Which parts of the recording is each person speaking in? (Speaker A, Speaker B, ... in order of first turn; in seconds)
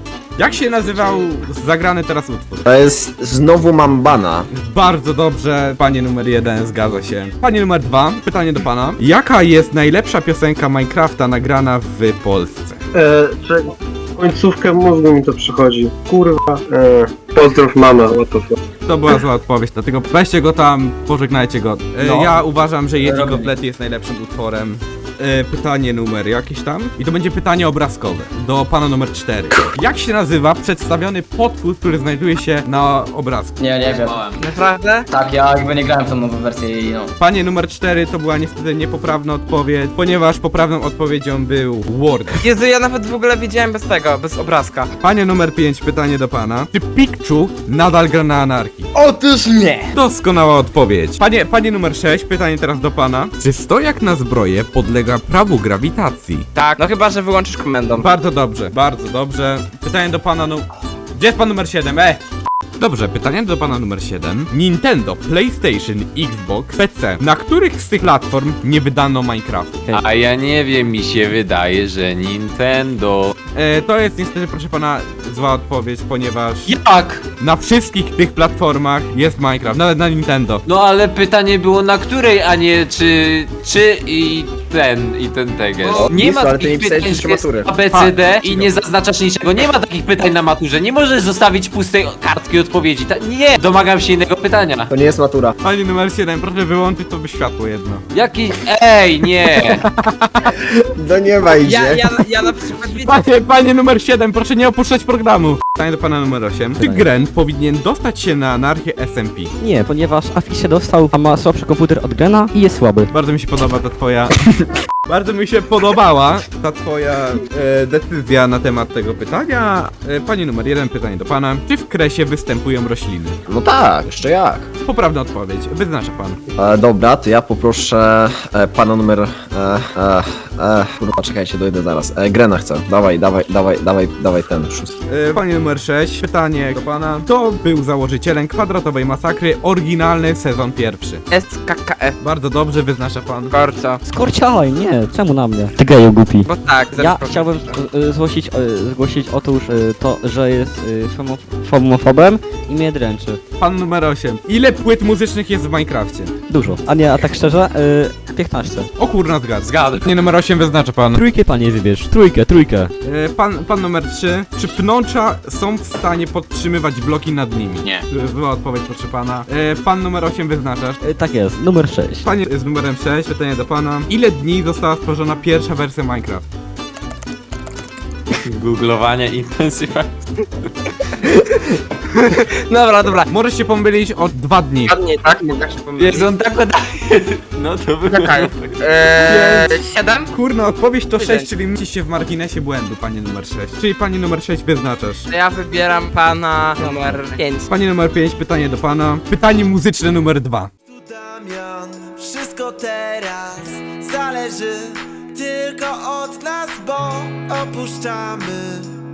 Speaker A: 0.4-2.6, 4.5-12.8, 18.9-33.6, 37.2-42.4, 45.0-48.9, 49.9-56.5, 57.9-62.2, 62.8-69.9, 73.5-76.8, 77.4-80.6, 87.9-88.7, 95.6-98.0, 99.8-100.5, 103.0-109.5, 113.1-114.5, 115.0-123.4, 124.8-126.4, 135.1-141.2, 142.2-143.5, 153.6-156.3, 159.0-161.2, 163.0-171.0, 172.2-176.4, 183.3-185.0, 189.2-189.7, 190.3-195.3, 197.7-200.7
Speaker B: 2.6-4.5, 86.0-87.7, 94.9-95.5, 100.5-102.0, 123.5-124.7, 126.6-134.9
Speaker C: 12.9-18.6
Speaker D: 22.0-22.4, 23.0-23.5, 33.6-34.2, 35.1-37.1
Speaker E: 34.0-34.4, 69.9-73.3, 76.7-77.2, 80.7-94.9, 98.1-99.8, 159.6-160.1, 178.4-180.2, 186.0-188.7
Speaker F: 34.3-35.0, 42.4-44.9, 56.5-58.1, 101.6-103.2, 141.3-142.2, 143.5-144.0, 146.4-147.8, 182.2-183.3, 184.9-186.3, 188.1-190.3, 191.1-191.5, 195.3-197.7
Speaker G: 48.9-49.9, 201.4-202.1, 202.8-208.8
Speaker H: 106.8-107.1, 109.6-113.1, 144.1-153.4, 156.5-158.9, 161.1-162.9, 171.0-172.3